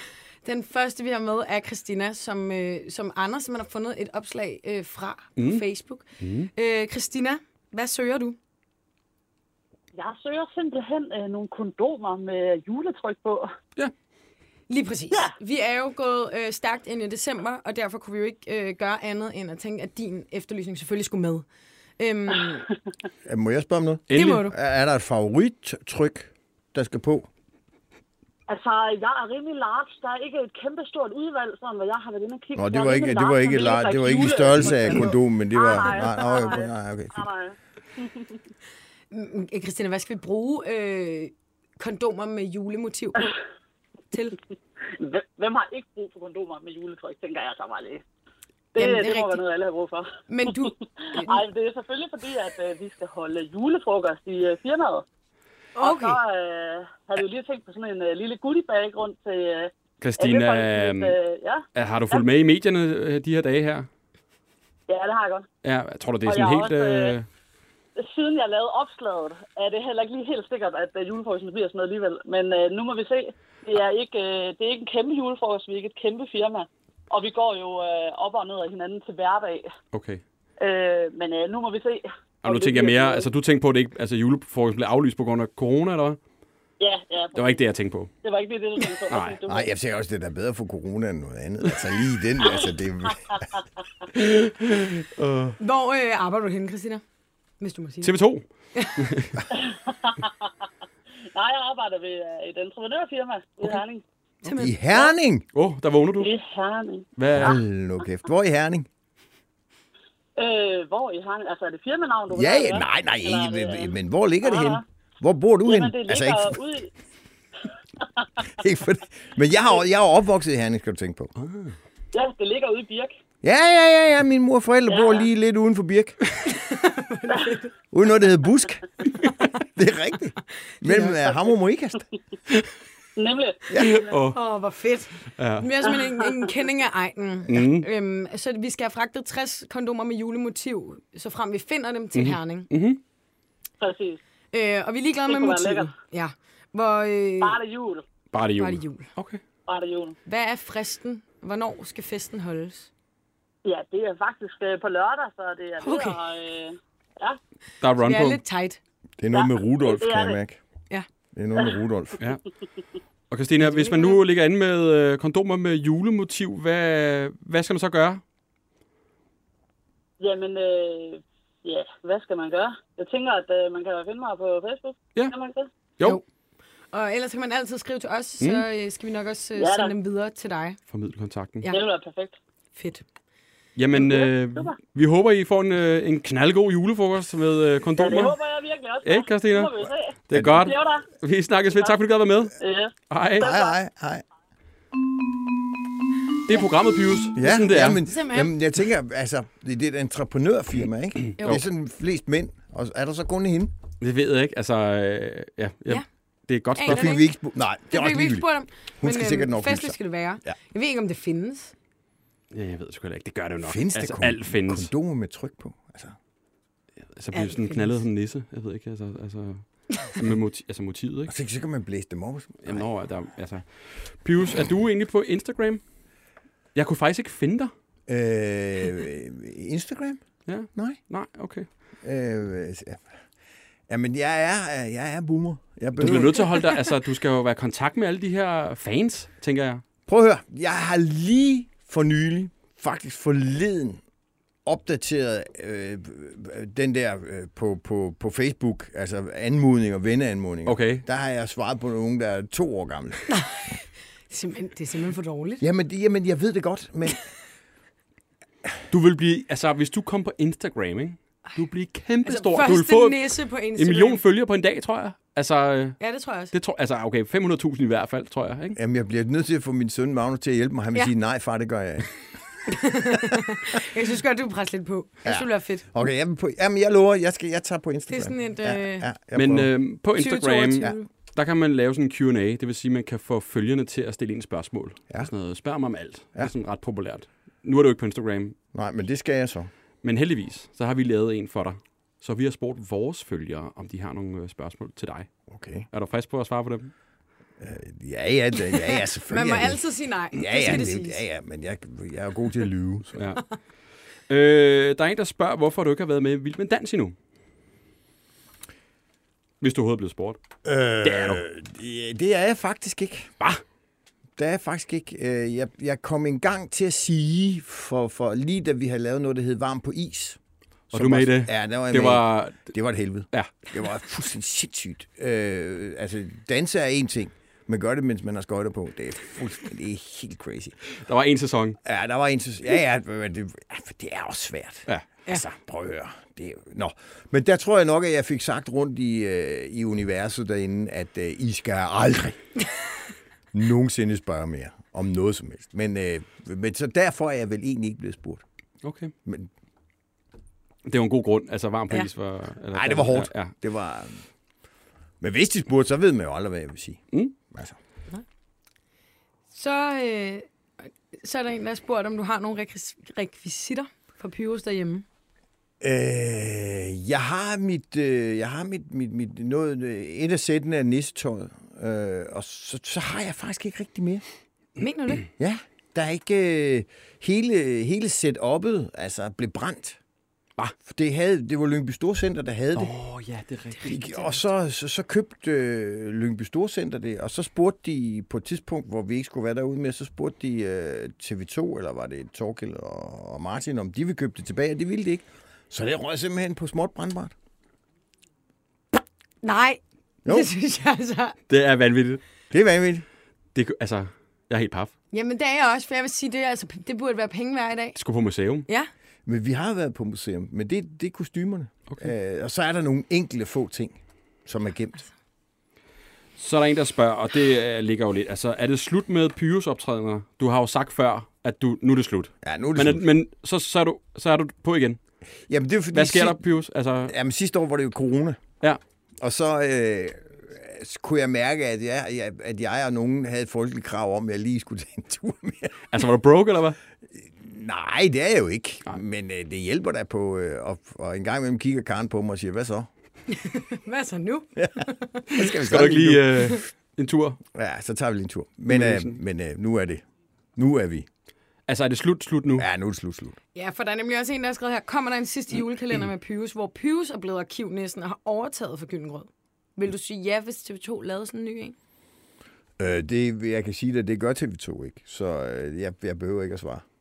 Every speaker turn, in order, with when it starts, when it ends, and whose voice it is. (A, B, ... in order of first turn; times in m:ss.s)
0:00.4-0:08.4 A
0:05.4-0:05.6 B
0:06.2-0:06.5 B
0:09.9-0:13.5 C
0:14.7-0:21.4 A
0:22.0-0:22.7 A
0:23.2-0:27.3 D
0:24.1-0:24.4 B
0:24.1-0:24.6 A
0:28.5-0:38.4 C
0:32.6-0:37.2 D
0:39.1-0:43.3 A
0:44.1-0:44.4 A
0:45.0-0:48.0 C
0:48.7-0:49.4 A
0:48.7-0:55.0 C
0:50.3-0:51.4 A
0:55.7-0:56.2 A
0:55.8-1:02.2 C
1:00.0-1:01.2 B
1:01.7-1:03.9 B
1:04.9-1:05.5 C
1:05.6-1:07.3 B
1:06.2-1:07.2 C
1:08.0-1:19.7 C
1:19.9-1:20.2 B
1:20.6-1:23.3 C
1:22.4-1:26.2 B
1:26.8-1:27.6 C
1:27.3-1:28.1 B
1:28.2-1:29.7 C
1:29.1-1:29.4 B
1:29.5-1:33.4 D
1:33.3-1:33.6 C
1:34.1-1:35.6 B
1:35.6-1:37.0 A
1:37.6-1:38.2 A
1:38.0-1:38.4 B
1:38.7-1:39.0 A
1:39.0-1:39.4 B
1:39.5-1:40.5 C
1:41.3-1:44.0 C
1:44.4-1:44.8 A
1:44.5-1:45.4 D
1:45.5-1:46.3 B
1:46.2-1:47.6 C
1:47.2-1:47.6 B
1:47.4-1:48.9 D
1:50.4-1:54.8 C
1:52.3-1:56.6 D
1:55.6-1:56.9 C
1:58.0-1:58.3 C
1:58.5-2:01.3 D
2:01.4-2:01.8 B
2:02.1-2:03.1 C
2:03.4-2:06.2 D
2:04.9-2:05.2 C
2:06.4-2:07.7 A
2:07.9-2:08.8 D
2:09.5-2:12.0 D
2:10.8-2:11.1 A
2:13.2-2:14.1 C
2:13.7-2:14.0 D
2:13.8-2:14.4 B
2:14.3-2:22.7 A
2:15.4-2:15.7 B
2:17.5-2:17.9 B
2:22.1-2:23.0 B
2:23.8-2:24.2 C
2:24.5-2:27.6 A
2:25.2-2:25.9 C
2:27.4-2:28.0 C
2:28.3-2:29.4 B
2:28.6-2:29.1 A
2:29.7-2:30.2 C
2:30.2-2:32.9 A
2:33.6-2:37.4 C
2:35.8-2:36.2 A
2:37.8-2:38.4 B
2:38.0-2:38.8 A
2:39.2-2:40.6 D
2:39.3-2:40.4 C
2:41.3-2:42.2 D
2:43.3-2:48.2 B
2:43.6-2:44.2 A
2:50.2-2:55.7 C
2:56.9-3:00.8 A
2:59.6-2:59.9 C
3:00.9-3:01.7 B
3:01.7-3:02.4 C
3:02.7-3:03.0 A
3:03.8-3:08.4 B
3:03.9-3:04.8 C
3:08.0-3:11.0 C
3:09.0-3:12.5 B
3:10.3-3:10.7 D
3:12.6-3:13.7 C
3:13.1-3:13.5 B
3:13.4-3:14.2 D
3:16.5-3:18.0 B
3:17.4-3:23.7 D
3:17.8-3:18.5 A
3:24.0-3:27.1 B
3:26.7-3:27.3 A
3:26.8-3:28.5 D
3:27.9-3:31.7 A
3:29.0-3:30.5 D
3:32.5-3:34.9 B
3:33.6-3:36.2 D
3:37.1-3:41.3 B
3:37.3-3:38.0 A
3:41.3-3:42.8 D
3:42.6-3:45.8 B
3:46.7-3:47.7 B
3:48.1-3:50.2 D
3:50.5-3:51.7 B
3:50.7-3:51.0 D
3:52.0-3:53.1 D
3:53.9-3:56.6 D
3:56.0-3:59.8 B
4:00.1-4:04.0 D
4:04.6-4:13.2 D
4:10.6-4:11.0 B
4:13.3-4:15.6 A
4:15.6-4:17.3 D
4:18.9-4:28.8 B
4:22.2-4:24.2 A
4:26.0-4:26.5 A
4:28.7-4:32.2 D
4:32.7-4:35.8 A
4:35.2-4:39.7 D
4:38.1-4:39.1 A
4:39.3-4:48.6 B
4:40.1-4:41.1 A
4:48.7-4:49.7 D
4:50.0-4:55.3 B
4:55.5-4:55.9 D
4:55.9-4:56.9 B
4:57.6-5:03.3 D
4:59.3-5:01.2 A
5:03.1-5:03.4 B
5:04.3-5:07.1 B
5:09.6-5:10.4 B
5:10.6-5:13.3 D
5:11.0-5:11.4 B
5:14.4-5:20.4 D
5:20.9-5:30.7 D
5:20.9-5:22.7 B
5:31.0-5:31.8 B
5:31.8-5:42.4 D
5:43.5-5:48.4 D
5:48.8-5:49.1 B
5:50.8-5:53.5 B
5:52.7-5:54.2 D
5:55.2-5:57.8 D
5:59.5-6:00.5 A
6:01.1-6:05.0 A
6:05.8-6:14.2 D
6:14.8-6:15.3 A
6:15.4-6:20.0 D
6:20.8-6:22.9 D
6:22.8-6:24.1 B
6:23.8-6:37.3 D
6:39.4-6:41.4 A
6:41.5-6:42.2 B
6:42.5-6:43.0 D
6:43.5-6:44.9 B
6:45.1-6:48.0 A
6:48.0-6:48.6 B
6:49.2-6:55.0 D
6:56.4-7:05.0 B
7:02.4-7:03.0 D
7:05.5-7:06.4 D
7:05.9-7:07.1 B
7:07.0-7:08.4 D
7:09.2-7:15.8 D
7:15.9-7:16.8 B
7:17.1-7:22.9 D
7:23.3-7:25.3 A
7:24.6-7:26.4 D
7:25.3-7:27.4 B
7:27.5-7:30.0 D
7:28.7-7:29.1 B
7:30.6-7:31.1 D
7:31.7-7:32.7 B
7:32.6-7:33.4 D
7:33.5-7:41.7 A
7:42.8-7:46.8 D